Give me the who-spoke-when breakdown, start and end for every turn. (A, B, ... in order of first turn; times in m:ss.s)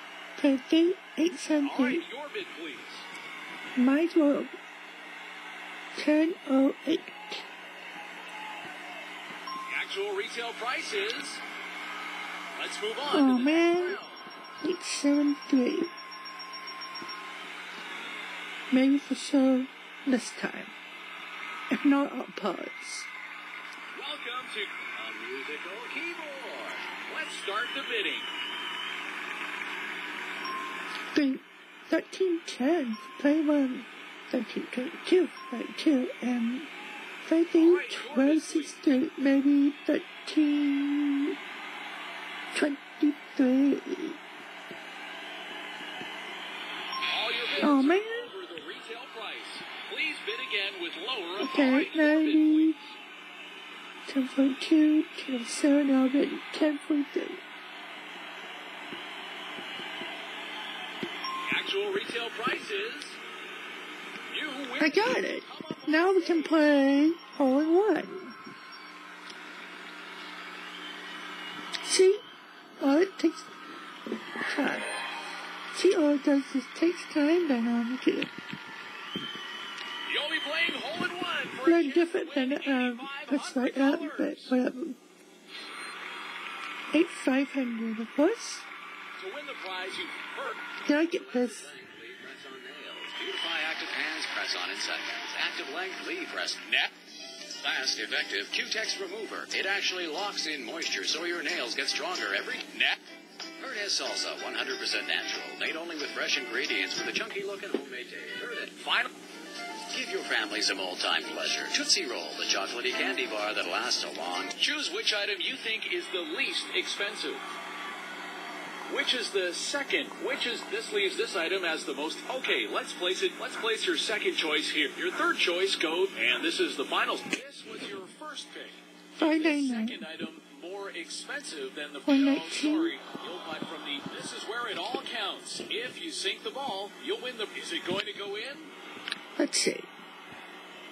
0:00.4-0:02.0 A
0:01.6-0:03.1 B
0:03.8-0:04.6 A
0:05.9-0:07.5 A
0:09.7-0:11.4 B
0:12.6-0:14.2 B
0:13.1-0:14.0 A
0:14.6-0:15.9 A
0:18.7-0:20.7 A
0:21.7-0:23.1 A
0:23.9-0:24.9 B
0:25.0-0:26.9 C
0:27.0-0:28.3 B
0:31.1-0:36.7 A
0:37.2-0:41.4 A
0:37.5-0:38.8 B
0:42.5-0:44.2 A
0:47.0-0:52.9 B
0:47.6-0:48.3 A
0:51.4-0:52.8 A
0:54.1-0:57.4 A
1:01.5-1:03.2 B
1:04.3-1:06.6 B
1:04.8-1:08.4 A
1:11.8-1:12.2 A
1:12.8-1:13.5 A
1:14.4-1:14.9 A
1:15.7-1:18.3 A
1:20.1-1:24.6 B
1:21.6-1:25.0 A
1:26.9-1:28.7 A
1:29.2-1:30.6 B
1:30.8-1:31.7 A
1:31.0-1:36.8 C
1:37.5-1:43.0 C
1:43.6-1:49.1 C
1:49.9-1:54.5 C
1:54.6-1:57.4 B
1:58.9-2:18.7 B
2:09.1-2:10.0 A
2:12.1-2:13.0 A
2:19.4-2:19.9 A